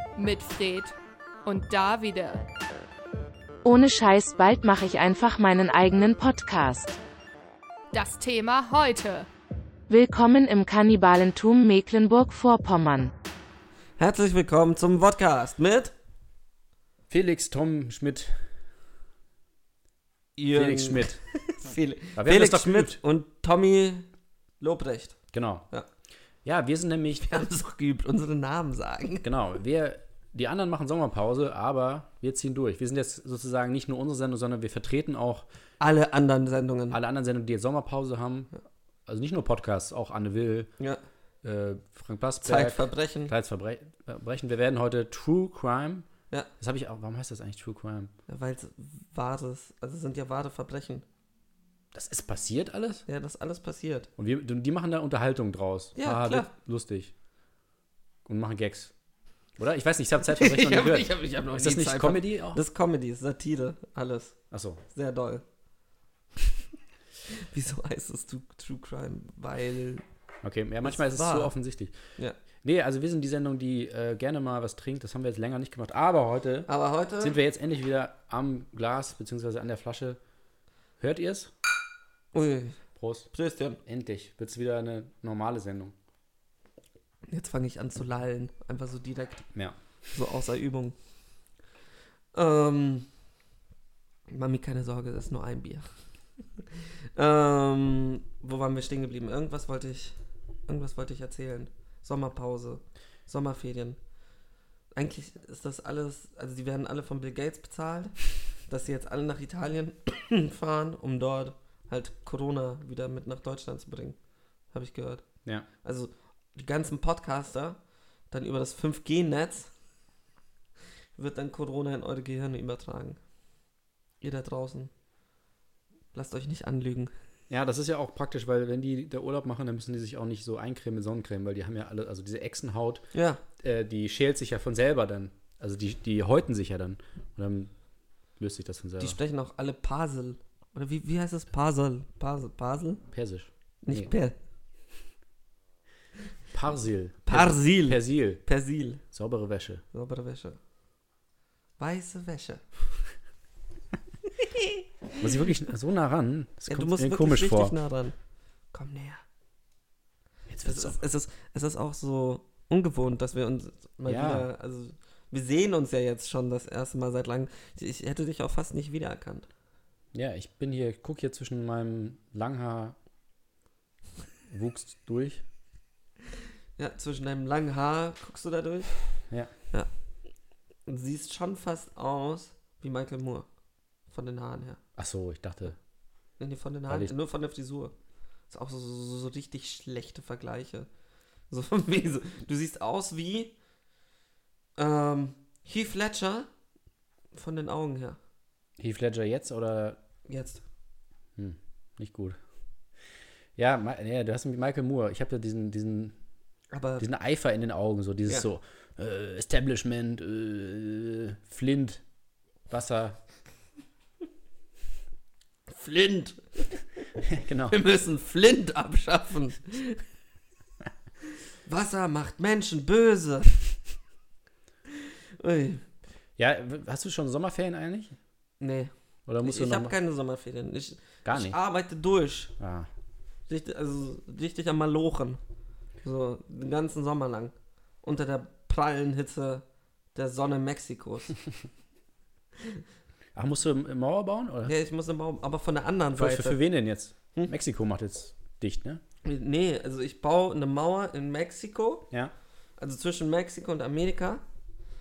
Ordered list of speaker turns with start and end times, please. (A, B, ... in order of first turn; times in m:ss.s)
0:00.2-0:02.5 A
0:03.6-0:07.0 B
0:07.9-0:09.3 A
0:09.9-0:13.1 B
0:14.0-0:15.9 C
0:17.1-0:18.4 D
0:20.4-0:24.1 C
0:20.5-0:21.2 D
0:22.2-0:23.0 D
0:24.6-0:25.2 C
0:25.3-0:25.7 D
0:26.4-0:27.3 D
0:27.2-0:29.3 C
0:29.2-0:35.5 D
0:35.8-0:37.0 C
0:36.9-0:38.5 D
0:39.1-0:40.7 D
0:41.4-0:46.1 D
0:42.4-0:43.3 C
0:46.6-0:48.1 D
0:48.3-0:51.0 C
0:51.9-0:53.0 D
0:53.1-0:54.1 C
0:54.2-0:57.1 D
0:56.0-0:56.5 C
0:58.3-0:58.9 D
0:59.6-1:02.6 D
1:00.3-1:04.4 C
1:04.5-1:04.8 D
1:04.9-1:05.4 C
1:07.3-1:10.0 C
1:10.4-1:12.0 D
1:10.8-1:11.5 C
1:12.6-1:20.2 D
1:16.7-1:17.4 C
1:21.0-1:21.5 D
1:22.3-1:22.8 C
1:23.0-1:23.3 D
1:23.3-1:23.8 C
1:23.8-1:26.0 D
1:27.3-1:29.5 C
1:30.1-1:31.0 C
1:32.3-1:33.1 C
1:34.3-1:35.9 C
1:36.6-1:40.2 C
1:40.7-1:44.0 C
1:44.9-1:54.2 C
1:54.7-1:59.7 C
2:01.2-2:03.2 C
2:04.2-2:04.9 C
2:06.1-2:07.1 C
2:07.5-2:17.7 D
2:13.1-2:13.4 C
2:18.4-2:19.2 D
2:19.0-2:23.0 C
2:23.1-2:24.1 D
2:23.8-2:24.4 C
2:26.5-2:28.4 D
2:27.3-2:29.0 C
2:29.1-2:29.8 D
2:29.9-2:30.6 C
2:31.8-2:32.6 C
2:35.2-2:37.8 D
2:36.7-2:38.2 C
2:38.7-2:39.2 C
2:40.5-2:41.0 D
2:40.6-2:49.5 C
2:44.1-2:44.5 D
2:50.1-2:53.0 D
2:54.5-2:55.4 D
2:56.8-2:59.0 C
3:00.9-3:03.5 C
3:04.1-3:04.8 C
3:05.0-3:05.8 D
3:06.4-3:07.9 C
3:06.9-3:07.1 D
3:08.5-3:10.9 C
3:11.5-3:13.5 C
3:14.8-3:16.5 C
3:17.3-3:18.2 C
3:18.8-3:20.0 D
3:20.3-3:20.6 C
3:21.4-3:22.4 D
3:23.6-3:26.2 D
3:26.7-3:27.0 C
3:27.0-3:32.0 D
3:32.7-3:33.2 D
3:35.7-3:36.8 C
3:37.3-3:37.8 D
3:37.7-3:40.0 C
3:41.6-3:43.6 C
3:45.4-3:45.8 C
3:46.4-3:48.2 D
3:48.6-3:48.9 C
3:49.3-3:50.0 D
3:49.4-3:52.5 C
3:51.2-3:51.6 D
3:52.6-3:52.9 D
3:53.5-3:55.4 C
3:56.0-4:01.4 C
4:03.4-4:04.7 D
4:04.7-4:06.6 C
4:06.1-4:09.0 D
4:09.2-4:12.1 C
4:12.8-4:14.4 C